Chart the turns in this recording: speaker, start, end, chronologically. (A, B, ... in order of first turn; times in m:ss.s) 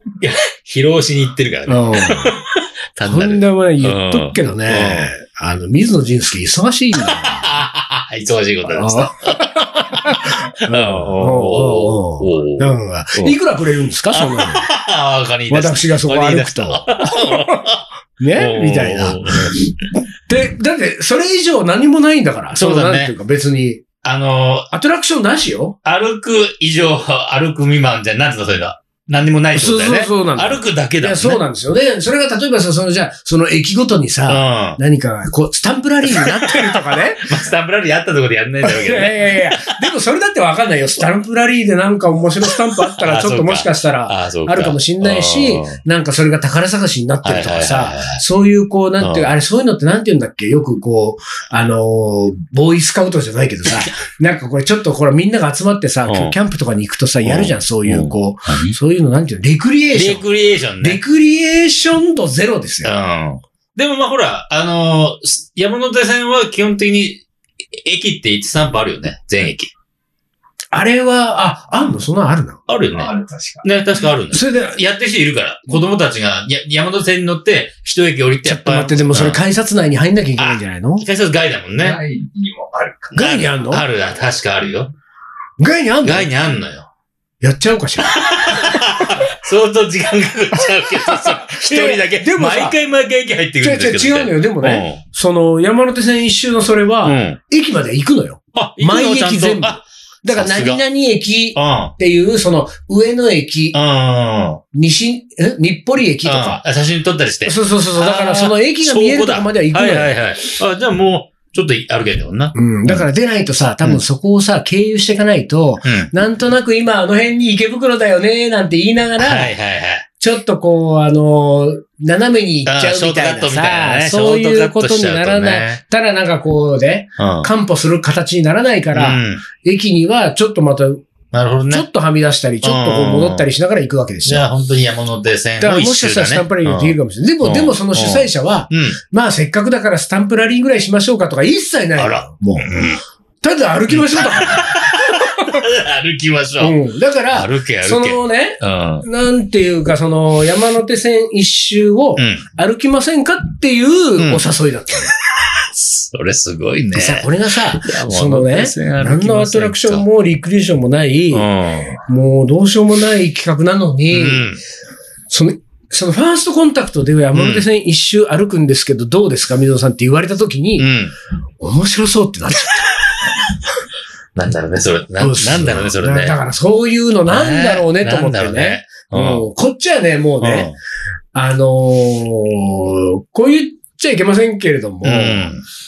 0:00.2-0:05.1 A
0:01.7-0:02.4 B
0:03.0-0:07.5 B
0:07.0-0:13.4 A
0:08.7-0:14.7 B
0:14.1-0:19.6 A
0:15.5-0:17.7 B
0:18.2-0:23.8 B
0:22.6-0:23.1 A
0:24.0-0:24.7 A
0:24.7-0:25.8 B
0:25.8-0:31.4 A
0:29.6-0:37.4 B
0:34.3-0:34.8 A
0:36.1-0:39.7 A
0:38.6-1:00.2 B
0:43.0-0:45.8 A
0:47.2-0:48.2 A
0:49.0-0:49.3 A
0:56.1-0:56.4 A
0:57.2-0:58.8 A
0:59.9-1:01.0 A
1:00.8-1:02.9 B
1:02.8-1:09.7 A
1:10.7-1:12.7 B
1:12.7-1:19.4 A
1:13.0-1:13.6 C
1:14.3-1:14.8 B
1:18.4-1:21.1 B
1:20.4-1:22.0 A
1:21.8-1:23.2 C
1:23.1-1:23.8 B
1:23.2-1:24.9 A
1:25.6-1:26.3 B
1:26.0-1:26.9 A
1:27.4-1:29.0 B
1:28.0-1:35.0 A
1:31.1-1:32.8 B
1:33.6-1:43.8 B
1:37.0-1:37.4 A
1:38.5-1:40.8 A
1:41.6-1:42.0 A
1:43.7-1:44.6 A
1:44.7-1:46.6 B
1:46.2-1:53.0 A
1:47.5-1:50.2 B
1:52.6-1:59.5 B
1:55.8-1:56.1 A
1:59.2-2:00.0 A
2:00.2-2:11.0 B
2:02.7-2:05.8 A
2:07.2-2:07.5 A
2:08.9-2:09.4 A
2:11.3-2:11.9 A
2:11.7-2:14.5 B
2:12.6-2:13.5 A
2:14.3-2:19.0 A
2:15.6-2:22.8 B
2:22.0-2:23.0 A
2:23.4-2:25.6 B
2:23.9-2:26.8 A
2:26.6-2:35.1 B
2:27.3-2:29.1 A
2:32.2-2:32.4 A
2:34.2-2:34.4 A
2:35.5-2:37.3 A
2:36.9-2:41.5 B
2:37.8-2:40.1 A
2:41.3-2:42.0 A
2:42.0-2:44.4 B
2:44.1-2:44.6 A
2:45.3-2:50.9 B
2:47.3-2:47.7 A
2:50.8-2:51.1 A
2:51.6-2:53.0 B
2:54.4-2:56.4 A
2:55.2-3:00.7 B
2:57.3-2:59.5 A
3:00.4-3:00.8 A
3:01.3-3:05.5 B
3:05.0-3:05.6 A